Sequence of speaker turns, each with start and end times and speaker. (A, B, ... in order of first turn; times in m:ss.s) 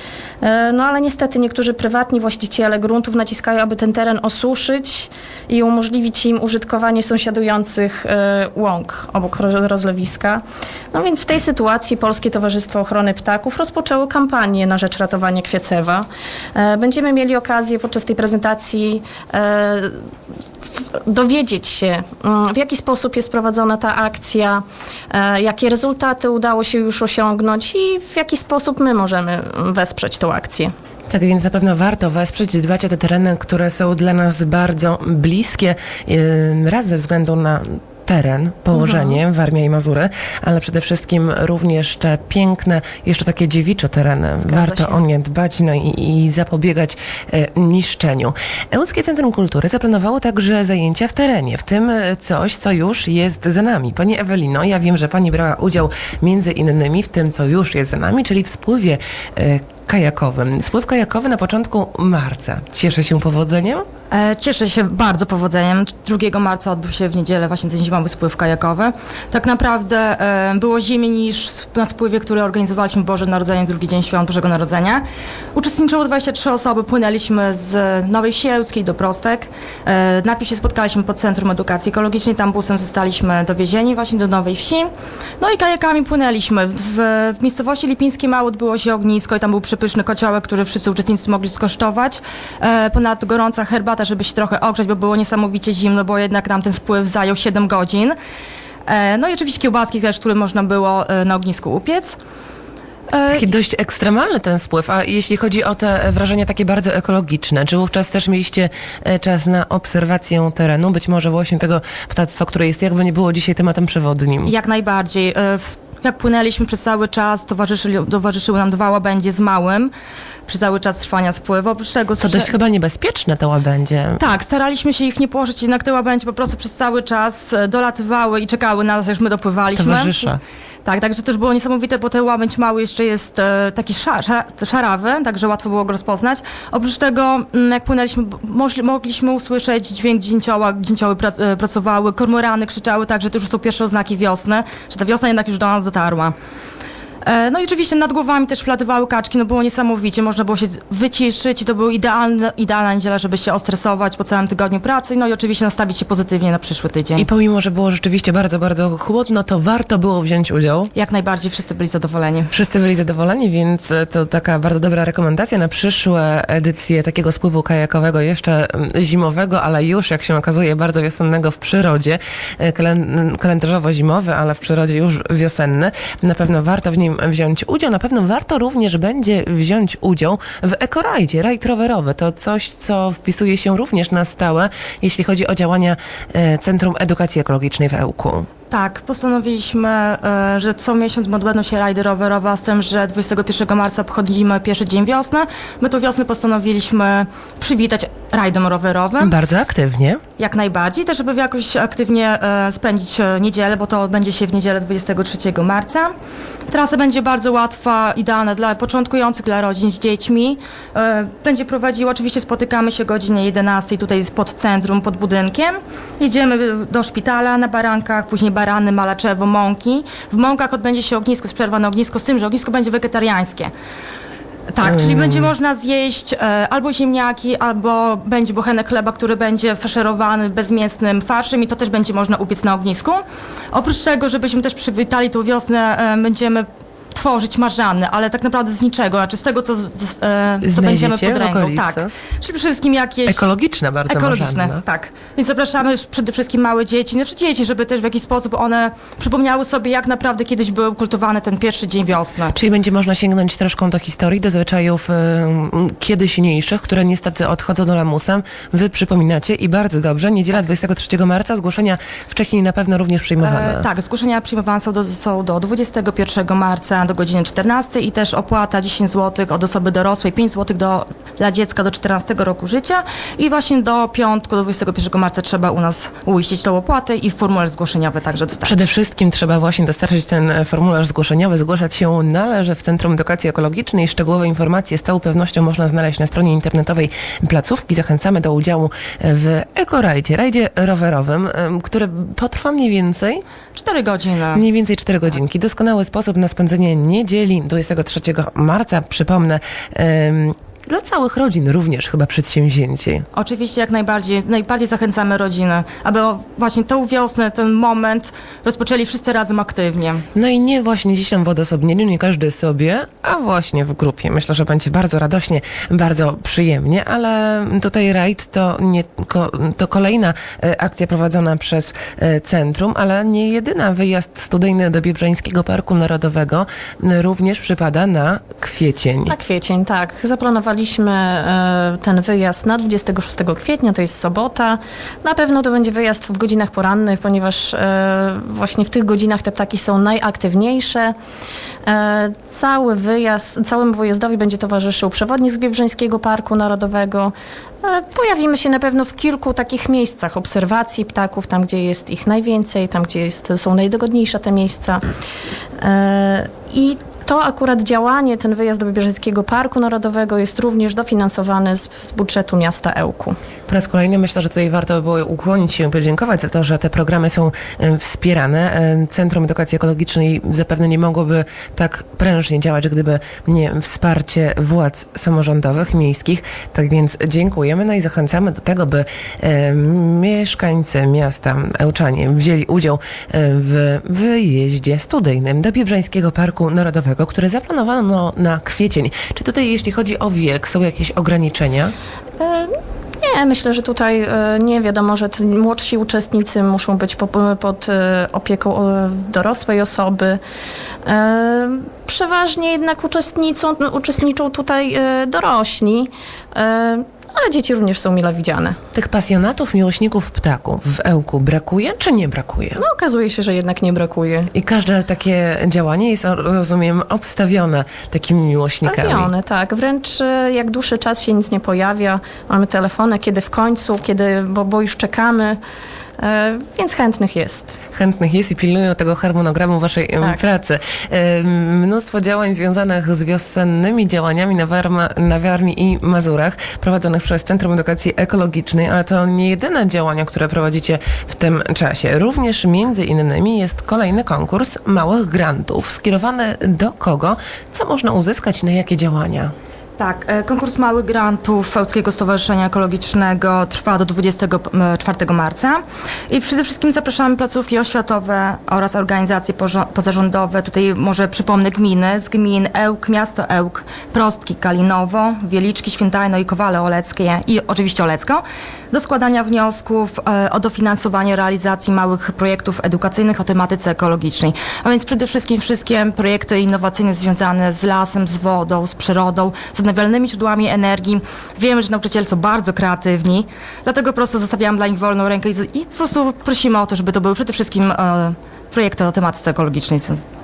0:00.4-0:20.1 A
0:20.9-0:30.7 A
0:31.1-1:03.8 B
0:38.7-0:39.2 A
1:04.1-1:38.1 C
1:38.9-1:42.2 C
1:43.1-1:43.5 C
1:43.3-1:54.5 B
1:54.4-1:59.9 C
2:00.5-2:02.5 C
2:02.2-2:04.2 B
2:04.2-2:10.2 C
2:09.8-2:10.4 B
2:10.8-2:26.4 C
2:27.2-2:37.3 C
2:37.2-2:40.9 B
2:40.9-2:42.5 C
2:42.5-3:08.5 B
3:08.7-3:19.4 C
3:19.2-3:20.2 B
3:20.4-3:26.1 C
3:26.7-3:43.7 C
3:44.7-4:03.5 C
3:44.8-3:45.4 B
4:00.6-4:02.1 B
4:03.3-4:04.8 B
4:04.1-4:12.5 C
4:12.5-4:23.8 B
4:23.4-4:38.9 C
4:38.6-4:53.4 B
4:53.7-4:54.6 C
4:54.5-5:03.2 B
5:03.3-5:10.2 C
5:10.3-5:29.3 B
5:29.3-5:41.1 A
5:41.8-5:55.0 A
5:55.8-6:03.4 A
6:03.7-6:31.9 B
6:32.4-6:40.4 A
6:41.0-6:48.8 A
6:48.9-6:52.8 B
6:52.8-6:54.5 A
6:54.5-6:59.3 B
6:58.8-7:05.6 A
7:06.2-7:07.8 A
7:07.9-7:29.5 B
7:30.0-8:10.2 C